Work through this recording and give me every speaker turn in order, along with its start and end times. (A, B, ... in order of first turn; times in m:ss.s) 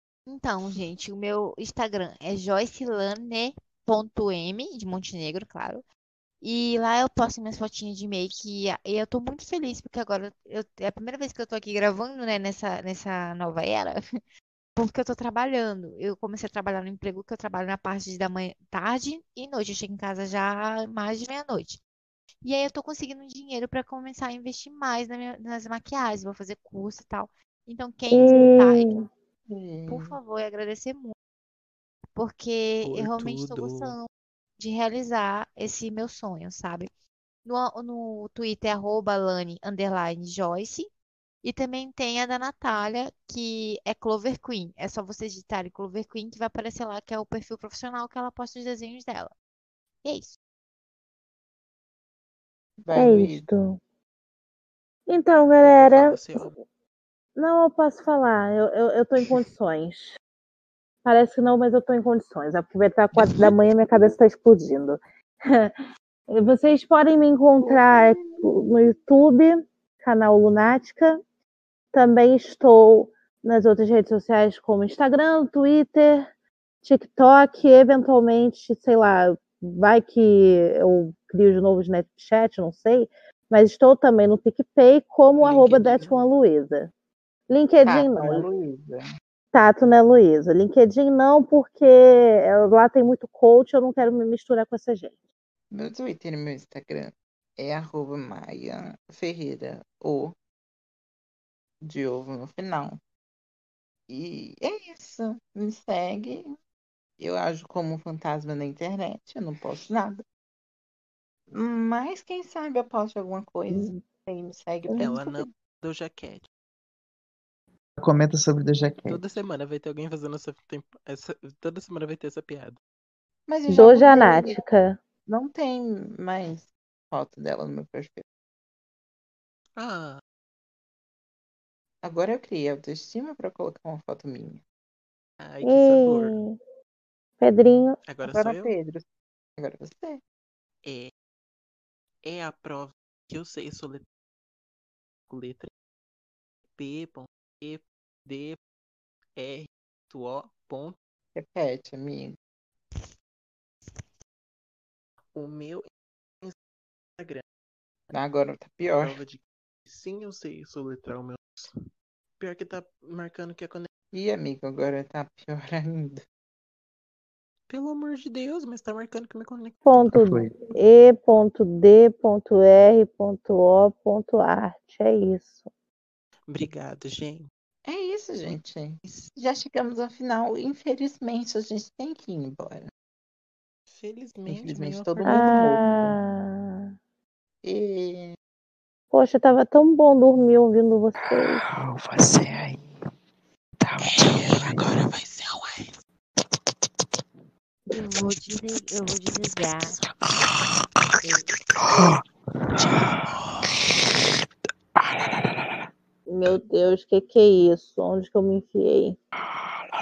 0:00.3-0:05.8 A
0:06.4-0:14.0 A
0:14.8-0:21.8 A
0:22.4-0:29.0 A
0:28.1-0:29.0 B
0:29.5-0:30.2 C
0:29.9-0:31.2 A
0:32.2-0:36.9 A
0:32.8-0:34.0 D
0:37.4-0:40.9 A
0:41.4-0:49.3 A
0:50.0-0:50.4 A
0:52.8-0:53.5 C
0:52.9-0:53.8 B
0:55.1-0:56.5 B
0:55.6-0:56.5 D
0:57.4-1:00.1 B
1:01.0-1:05.0 B
1:06.3-1:11.2 B
1:07.6-1:08.4 C
1:11.9-1:16.3 B
1:16.8-1:26.9 B
1:25.4-1:26.0 C
1:25.5-1:26.2 D
1:27.5-1:28.5 B
1:27.8-1:29.0 C
1:29.5-1:35.1 B
1:35.7-1:40.3 C
1:41.8-1:43.0 C
1:44.1-1:46.6 C
1:47.2-1:50.2 C
1:51.5-1:55.5 C
1:53.7-1:54.0 B
1:55.0-1:56.5 D
1:58.0-1:59.2 E
1:59.1-2:02.8 D
2:03.5-2:04.6 C
2:03.7-2:05.0 B
2:05.3-2:08.2 C
2:09.8-2:10.2 D
2:12.0-2:14.6 C
2:15.4-2:16.4 D
2:15.6-2:16.6 B
2:17.4-2:18.0 B
2:18.1-2:18.7 D
2:18.2-2:19.0 C
2:19.6-2:20.2 C
2:20.8-2:21.1 D
2:22.2-2:24.0 D
2:25.3-2:25.7 D
2:26.8-2:28.6 D
2:29.4-2:31.0 D
2:31.4-2:32.4 C
2:35.4-2:35.9 D
2:37.2-2:37.4 D
2:38.1-2:39.2 C
2:38.8-2:41.8 D
2:42.4-2:43.9 D
2:44.1-2:46.2 C
2:47.7-2:50.1 D
2:49.9-2:55.7 B
2:50.1-2:50.6 E
2:56.5-2:57.5 D
2:57.9-3:02.9 C
2:59.0-2:59.3 D
3:03.9-3:05.4 D
3:04.5-3:06.2 C
3:05.2-3:06.9 B
3:07.6-3:08.4 C
3:09.1-3:11.6 B
3:11.8-3:12.8 E
3:13.8-3:14.9 E
3:14.0-3:15.8 D
3:17.9-3:20.0 A
3:21.8-3:22.2 E
3:22.8-3:23.2 E
3:22.8-3:23.4 D
3:26.3-3:29.2 B